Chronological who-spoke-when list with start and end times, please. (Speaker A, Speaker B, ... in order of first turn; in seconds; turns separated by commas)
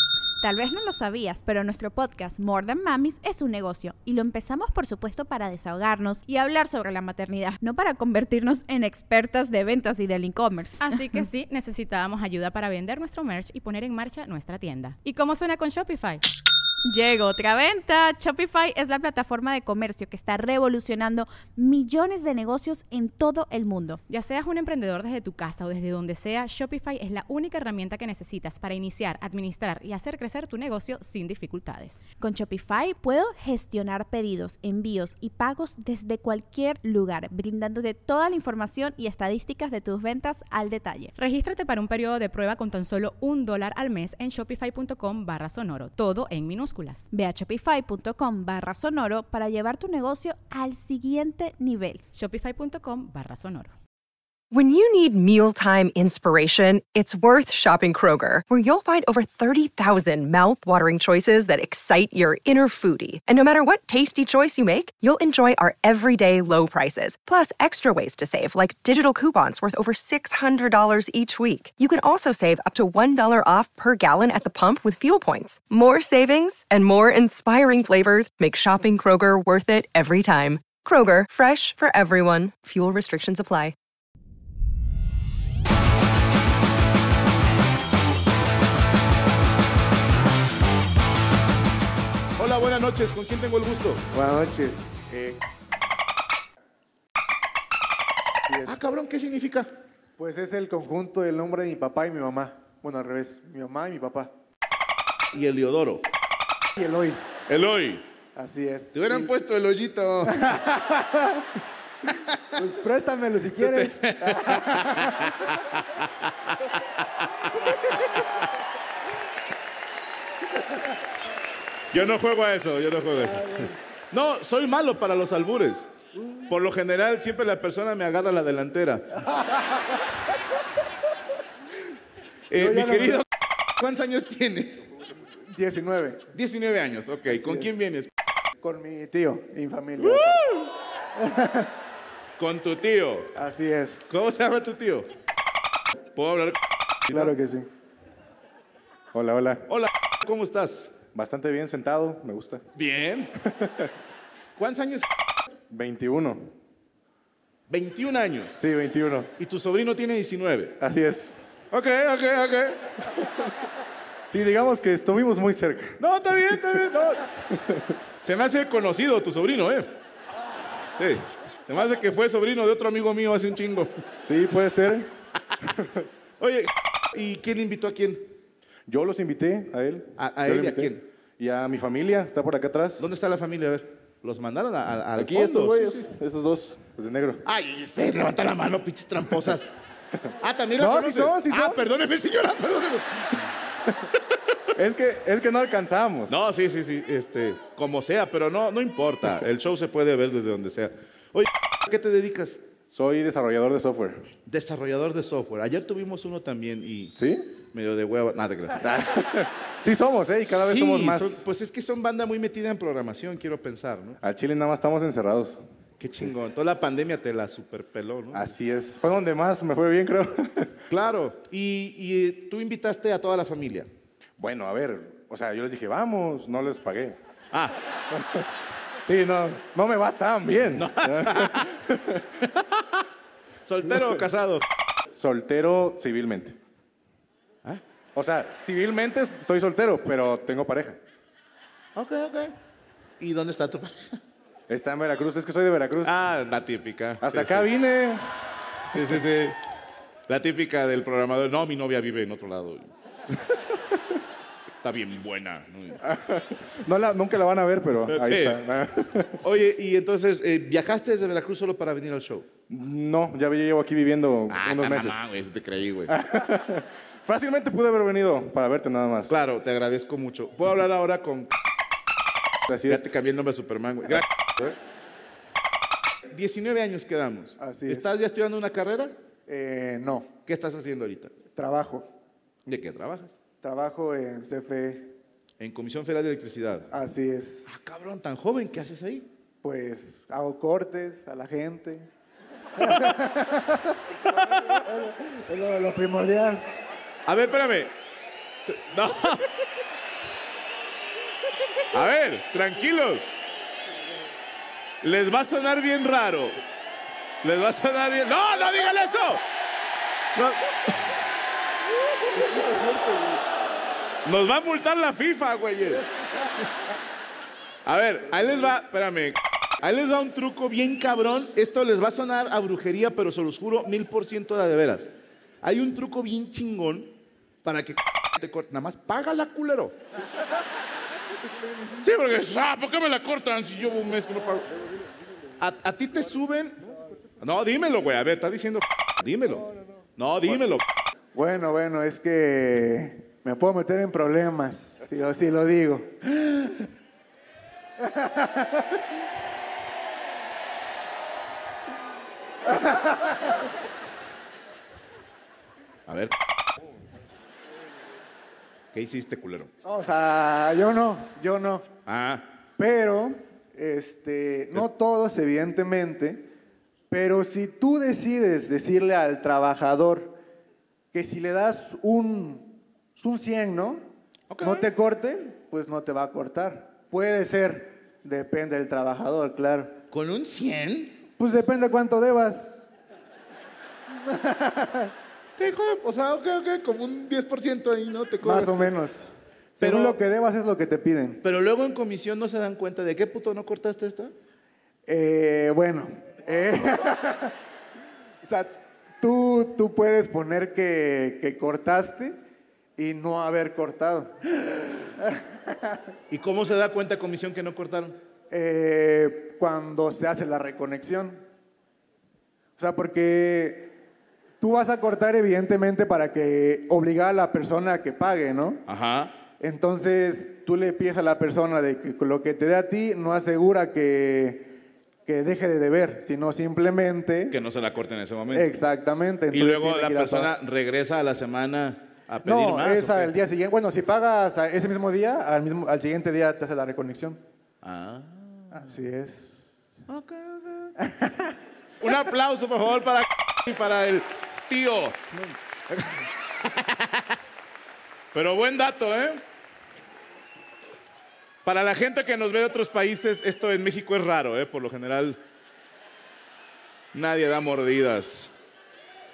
Speaker A: 0.4-11.2, Speaker B: 10.8-16.2, Speaker A: 16.9-24.0, Speaker B: 24.1-32.0, Speaker A: 32.2-41.1, Speaker B: 41.1-47.1, Speaker A: 47.1-52.0, Speaker B: 52.1-53.7, Speaker C: 54.5-83.7, Speaker D: 92.4-94.0, Speaker E: 94.1-95.4, Speaker E: 98.5-98.7, Speaker D: 98.6-99.7, Speaker E: 100.2-104.3, Speaker D: 105.3-106.1, Speaker E: 106.8-107.2, Speaker D: 107.5-108.2, Speaker E: 108.3-109.3, Speaker D: 108.9-110.5, Speaker E: 110.3-111.4, Speaker D: 112.3-112.6, Speaker E: 112.6-114.4, Speaker D: 113.5-116.5, Speaker D: 121.9-125.9, Speaker D: 126.5-129.1, Speaker D: 132.5-133.2, Speaker E: 132.6-133.2, Speaker D: 133.8-134.9, Speaker E: 135.5-136.2, Speaker D: 136.3-138.1, Speaker E: 137.3-137.8, Speaker E: 138.6-140.4, Speaker D: 139.9-140.7, Speaker E: 141.2-141.7, Speaker D: 142.4-143.4, Speaker E: 143.4-144.1, Speaker D: 144.1-145.1, Speaker D: 146.1-147.4, Speaker E: 147.1-147.7, Speaker F: 149.1-149.7, Speaker D: 149.7-151.0, Speaker F: 151.1-152.6, Speaker D: 152.7-153.4, Speaker F: 153.6-153.9, Speaker D: 154.6-155.1, Speaker F: 155.7-156.5, Speaker D: 157.7-158.6, Speaker F: 158.6-159.3, Speaker D: 159.4-160.8, Speaker F: 160.8-161.3, Speaker D: 161.7-162.9, Speaker F: 164.3-166.0, Speaker D: 166.0-167.2, Speaker F: 166.5-166.8, Speaker F: 167.4-167.9, Speaker D: 168.2-169.9, Speaker D: 170.9-173.9, Speaker F: 174.2-175.1, Speaker F: 175.6-176.1, Speaker D: 176.4-178.3, Speaker F: 178.9-183.1, Speaker D: 180.2-181.0, Speaker D: 183.0-186.1, Speaker F: 185.2-187.4, Speaker D: 187.4-189.7, Speaker D: 190.4-193.5, Speaker F: 190.8-191.8, Speaker F: 194.8-196.4, Speaker D: 196.3-202.7, Speaker F: 202.9-204.3, Speaker D: 204.5-207.1, Speaker F: 207.2-207.6, Speaker D: 207.7-208.9, Speaker F: 208.8-211.4, Speaker D: 210.4-214.2, Speaker F: 214.2-215.6, Speaker D: 216.0-218.5, Speaker F: 218.3-220.8, Speaker D: 220.9-223.9, Speaker F: 224.4-227.2, Speaker D: 227.5-227.8, Speaker F: 228.1-232.2, Speaker D: 230.7-231.7, Speaker D: 233.6-234.6, Speaker F: 233.8-234.3, Speaker F: 235.1-236.6, Speaker F: 238.1-241.0, Speaker D: 241.9-242.5, Speaker D: 243.2-244.2, Speaker F: 244.7-246.2, Speaker D: 246.0-247.7, Speaker F: 247.2-248.3, Speaker D: 248.9-249.6, Speaker D: 250.3-252.9, Speaker F: 253.4-254.0, Speaker D: 254.8-256.0, Speaker F: 256.0-259.4, Speaker D: 258.1-258.6, Speaker D: 259.4-262.6, Speaker F: 262.7-265.4, Speaker D: 264.5-266.1, Speaker F: 266.1-269.4, Speaker D: 269.3-271.5, Speaker F: 272.7-273.0, Speaker D: 272.9-274.7, Speaker D: 276.3-279.1, Speaker E: 277.6-278.2, Speaker E: 279.5-280.3, Speaker D: 280.4-281.3, Speaker E: 281.5-282.1, Speaker D: 282.7-283.4, Speaker E: 283.6-285.1, Speaker D: 285.6-286.9, Speaker E: 286.9-287.8, Speaker D: 287.6-289.3, Speaker E: 289.6-292.1, Speaker D: 292.8-293.3, Speaker E: 293.1-293.9, Speaker D: 294.1-294.8, Speaker E: 294.9-296.6, Speaker D: 297.2-297.9, Speaker D: 298.7-299.5, Speaker D: 301.9-303.4, Speaker D: 305.0-306.6, Speaker D: 307.4-309.4, Speaker D: 310.3-311.0, Speaker D: 312.4-313.4, Speaker D: 314.2-316.0, Speaker D: 317.8-325.1, Speaker D: 325.6-329.9, Speaker D: 331.9-334.7, Speaker D: 335.6-336.8, Speaker D: 337.4-340.8, Speaker E: 341.3-346.1, Speaker D: 346.3-346.6, Speaker E: 348.0-348.8, Speaker E: 352.7-353.2, Speaker D: 356.1-356.3, Speaker D: 358.9-359.7, Speaker E: 359.8-361.9, Speaker D: 362.0-362.6, Speaker E: 362.8-366.4, Speaker E: 367.1-370.4, Speaker E: 371.1-374.1, Speaker D: 374.5-374.9, Speaker E: 374.6-380.0, Speaker D: 380.1-381.2, Speaker E: 381.4-382.9, Speaker E: 384.2-385.1, Speaker D: 385.6-389.0, Speaker E: 388.4-391.4, Speaker D: 389.8-390.2, Speaker D: 391.4-394.3, Speaker E: 395.1-397.5, Speaker E: 398.4-402.4, Speaker E: 403.0-404.3, Speaker D: 404.7-405.1, Speaker E: 405.2-406.0, Speaker D: 406.3-408.2, Speaker E: 408.5-411.4, Speaker E: 412.8-413.9, Speaker E: 414.6-418.8, Speaker D: 418.9-419.5, Speaker E: 419.6-427.5, Speaker D: 427.5-428.7, Speaker E: 428.5-430.5, Speaker D: 429.5-433.4, Speaker E: 432.4-437.4, Speaker D: 437.8-439.0, Speaker E: 438.7-439.6, Speaker D: 440.1-440.9, Speaker E: 441.0-441.4, Speaker D: 442.0-447.2, Speaker D: 448.3-449.4, Speaker D: 451.6-455.4, Speaker D: 457.1-458.5